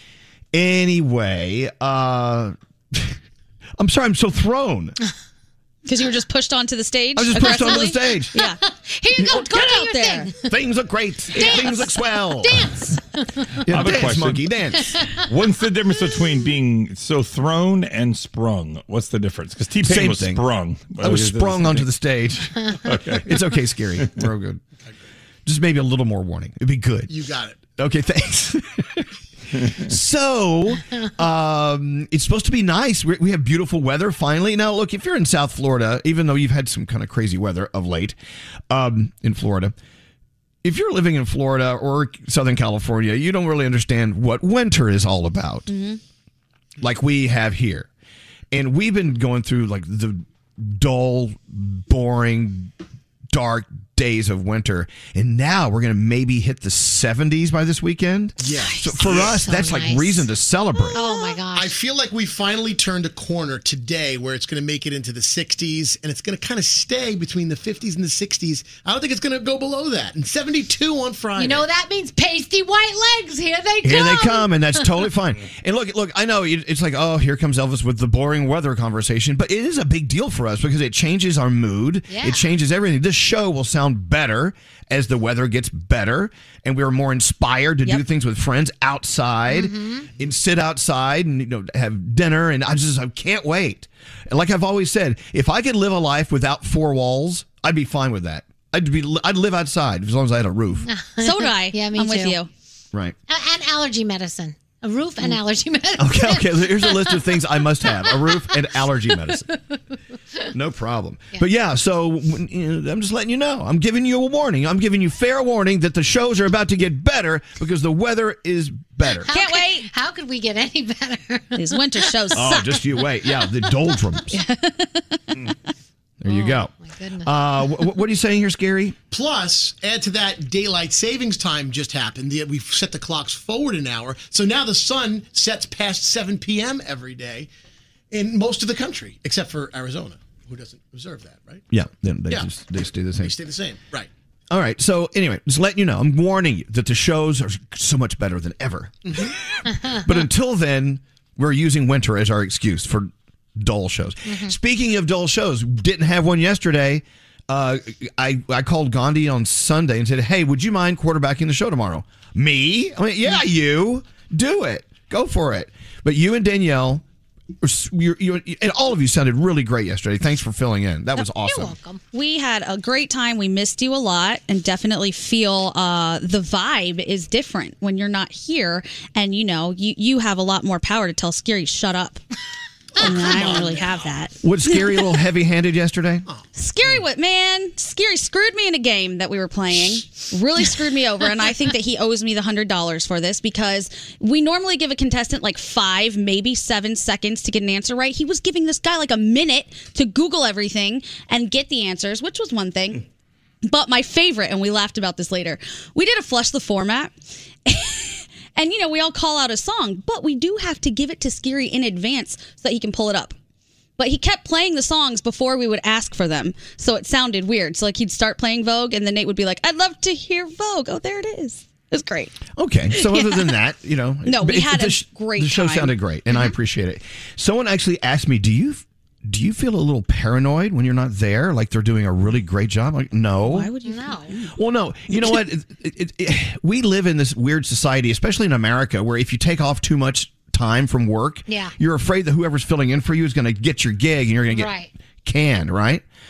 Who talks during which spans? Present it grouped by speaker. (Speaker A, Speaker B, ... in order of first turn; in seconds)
Speaker A: 0.5-3.2, 3.8-5.0, 7.2-8.3, 9.2-9.4, 10.5-12.8, 13.7-14.9, 19.8-20.4, 21.0-24.6, 25.4-27.1, 27.8-29.1, 29.8-38.2, 38.7-39.7, 40.6-45.7, 46.8-47.9, 48.5-52.7, 53.3-61.1, 73.8-100.9, 106.0-109.5, 110.5-119.3, 122.3-124.3, 126.2-128.9, 141.7-143.3, 144.5-149.2, 150.0-167.0, 167.6-171.8, 184.4-186.2, 222.6-233.7, 234.5-246.0
Speaker B: 5.8-8.6, 9.2-10.3, 11.3-11.8, 45.7-46.0, 60.9-61.3, 101.2-102.5, 119.3-119.9, 121.5-122.8, 124.3-125.3, 172.1-182.2, 183.0-185.0, 186.5-203.0, 203.6-207.1, 207.7-213.3, 214.0-222.4, 222.9-223.2, 224.2-225.9, 233.4-234.5
Speaker C: 8.4-10.5, 11.3-13.5, 58.9-60.3, 60.9-61.7, 71.3-74.8, 82.1-82.4, 89.5-90.1, 100.9-102.4, 103.3-108.5, 109.5-109.8, 119.2-121.7, 126.3-127.5, 149.7-150.0, 154.3-154.5, 171.4-172.0, 233.8-234.3, 241.5-241.7, 244.5-244.9
Speaker D: 13.7-14.5, 15.2-21.9, 22.8-23.4
Speaker E: 27.1-27.6, 58.4-59.4, 61.5-71.7, 129.1-137.5, 138.1-141.6, 143.2-144.1, 149.1-149.3, 183.1-183.8